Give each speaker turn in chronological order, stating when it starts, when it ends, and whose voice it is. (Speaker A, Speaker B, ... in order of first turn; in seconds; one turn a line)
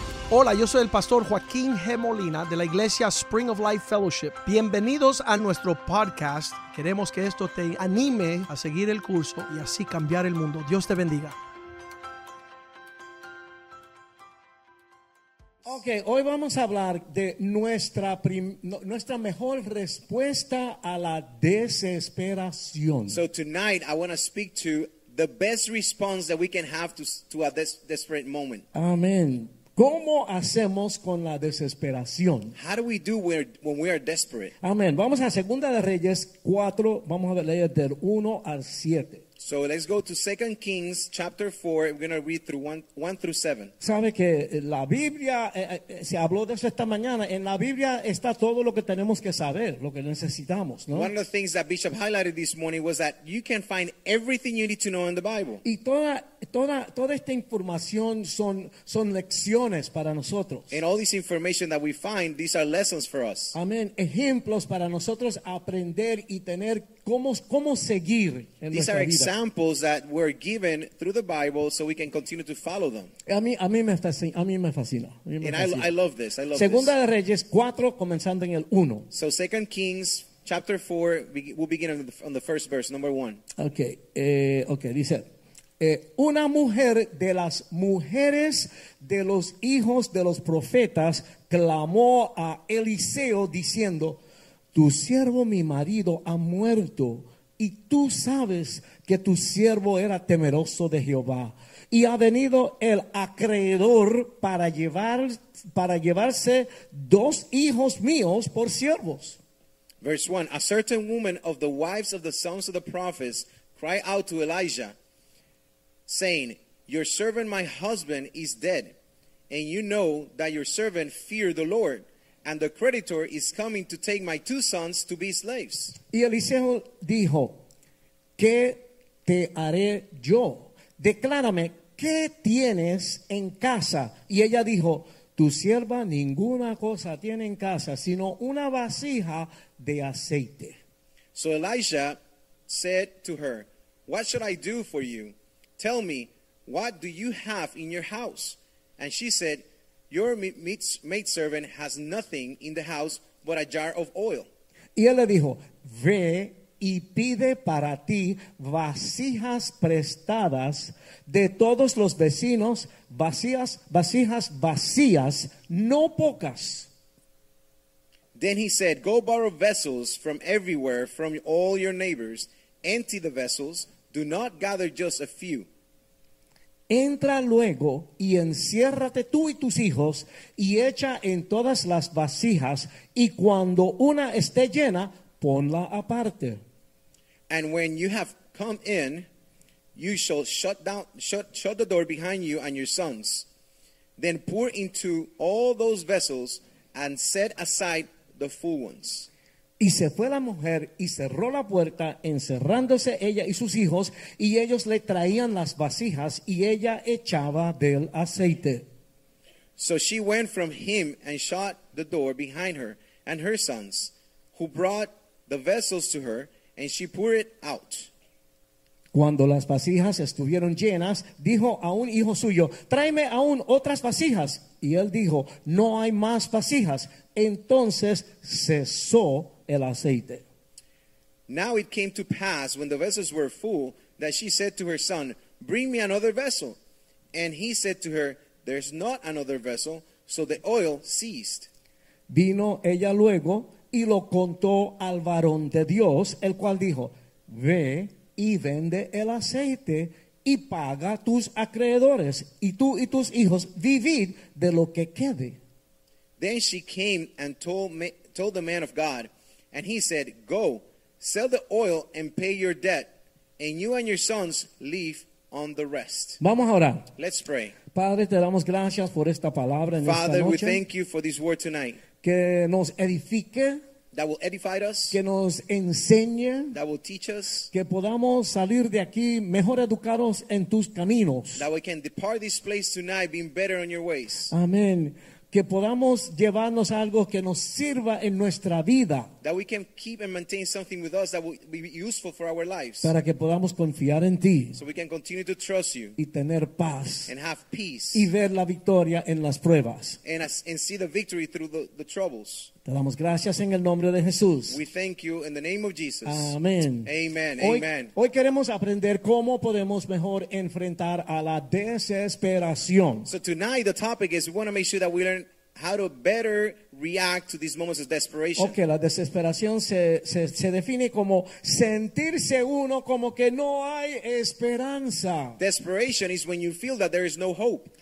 Speaker A: 0.3-11.4
Speaker B: 15.7-23.2
Speaker C: 23.1-28.7
Speaker B: 28.7-32.5
Speaker C: 32.5-34.5
Speaker B: 34.6-39.2
Speaker C: 39.4-43.7
Speaker B: 43.8-51.1
Speaker C: 50.9-55.6
Speaker B: 55.6-60.8
Speaker C: 60.7-63.5
Speaker B: 63.5-69.3
Speaker C: 68.7-73.1
Speaker B: 73.2-75.9
Speaker C: 75.4-76.9
Speaker B: 76.5-79.1
Speaker C: 79.1-83.4
Speaker B: 83.6-85.3
Speaker B: 85.8-94.2
Speaker B: 94.7-109.4
Speaker C: 110.0-114.9
Speaker C: 116.1-118.9
Speaker C: 119.5-126.0
Speaker B: 126.1-127.6
Speaker B: 128.4-140.8
Speaker C: 141.3-154.5
Speaker B: 155.0-166.9
Speaker C: 168.3-175.7
Speaker B: 176.9-186.6
Speaker C: 187.5-189.3
Speaker C: 190.0-193.5
Speaker C: 194.2-199.3
Speaker B: 199.8-208.8
Speaker C: 209.8-218.1
Speaker B: 219.1-230.4
Speaker C: 231.5-236.8
Speaker C: 237.3-241.7
Speaker B: 242.3-255.6
Speaker C: 256.4-266.4
Speaker B: 266.4-267.1
Speaker C: 267.2-267.8
Speaker B: 267.9-270.8
Speaker C: 270.0-272.0
Speaker B: 272.2-273.8
Speaker C: 274.1-275.2
Speaker B: 275.1-276.8
Speaker C: 276.7-277.7
Speaker B: 277.7-281.7
Speaker C: 281.6-284.5
Speaker B: 284.5-289.3
Speaker C: 289.4-293.1
Speaker B: 293.0-294.8
Speaker C: 294.8-296.2
Speaker B: 296.2-297.3
Speaker C: 297.3-298.3
Speaker B: 298.1-300.2
Speaker C: 300.2-302.7
Speaker B: 302.9-304.8
Speaker C: 304.7-306.5
Speaker B: 306.2-313.3
Speaker C: 307.1-308.1
Speaker C: 313.3-318.8
Speaker B: 318.6-325.6
Speaker C: 325.6-327.9